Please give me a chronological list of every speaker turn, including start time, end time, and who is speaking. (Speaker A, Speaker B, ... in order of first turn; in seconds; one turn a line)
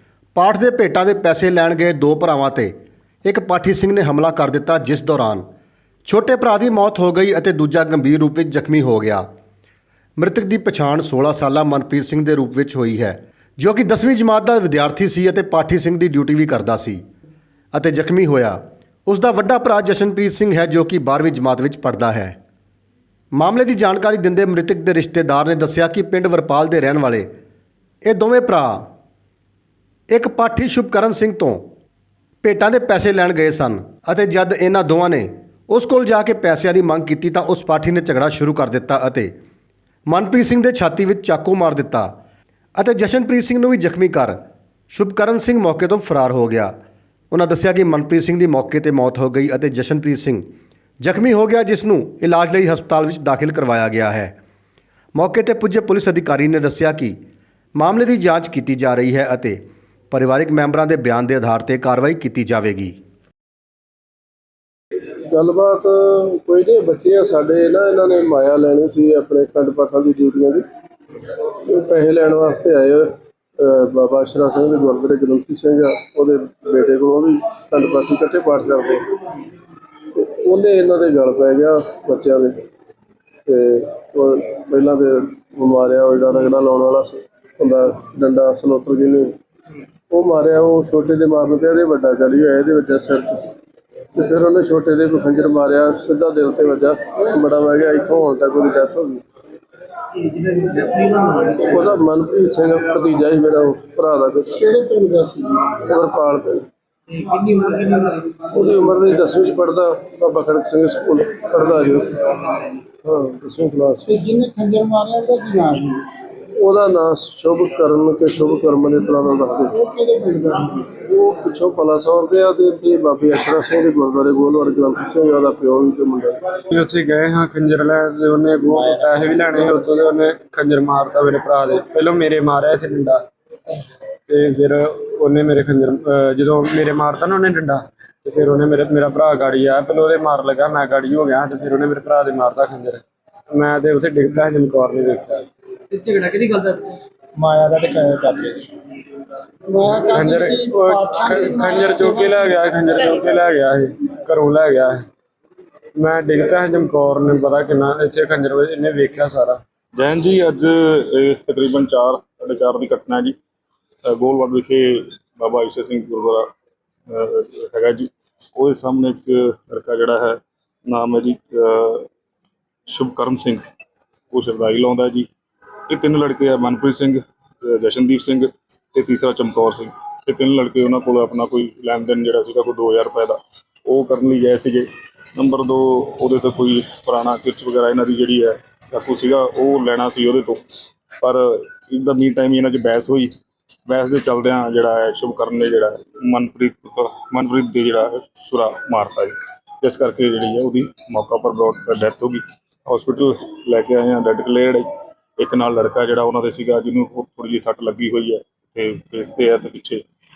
Speaker A: 0.3-2.7
Speaker A: 3.2-5.4
Speaker A: 6.0-9.2
Speaker A: 10.2-17.0
Speaker A: 17.7-22.4
Speaker A: 23.3-27.3
Speaker A: 28.0-28.9
Speaker A: 30.1-31.6
Speaker A: 32.4-39.3
Speaker A: 40.1-42.1
Speaker A: 42.8-44.4
Speaker A: 44.9-46.7
Speaker A: 47.3-50.4
Speaker A: 51.0-54.4
Speaker A: 55.1-57.2
Speaker A: 57.8-59.6
Speaker A: 60.1-63.0
Speaker B: 65.2-70.7
Speaker B: 71.6-79.1
Speaker B: 80.1-82.6
Speaker B: 83.5-89.3
Speaker B: 90.1-93.5
Speaker B: 94.1-99.2
Speaker C: 100.5-101.3
Speaker B: 101.3-104.6
Speaker C: 104.6-105.6
Speaker B: 105.6-107.2
Speaker C: 107.3-107.8
Speaker B: 107.8-114.1
Speaker C: 114.1-116.1
Speaker B: 116.5-119.8
Speaker C: 119.8-120.9
Speaker B: 120.9-126.4
Speaker D: 126.7-133.2
Speaker D: 134.3-145.5
Speaker C: 146.1-146.7
Speaker C: 147.4-148.7
Speaker C: 149.7-152.3
Speaker D: 150.0-155.0
Speaker D: 155.9-159.6
Speaker E: 159.9-163.3
Speaker E: 164.0-166.5
Speaker E: 167.1-172.1
Speaker E: 172.9-173.6
Speaker E: 174.3-175.3
Speaker E: 175.9-193.3
Speaker E: 193.9-210.0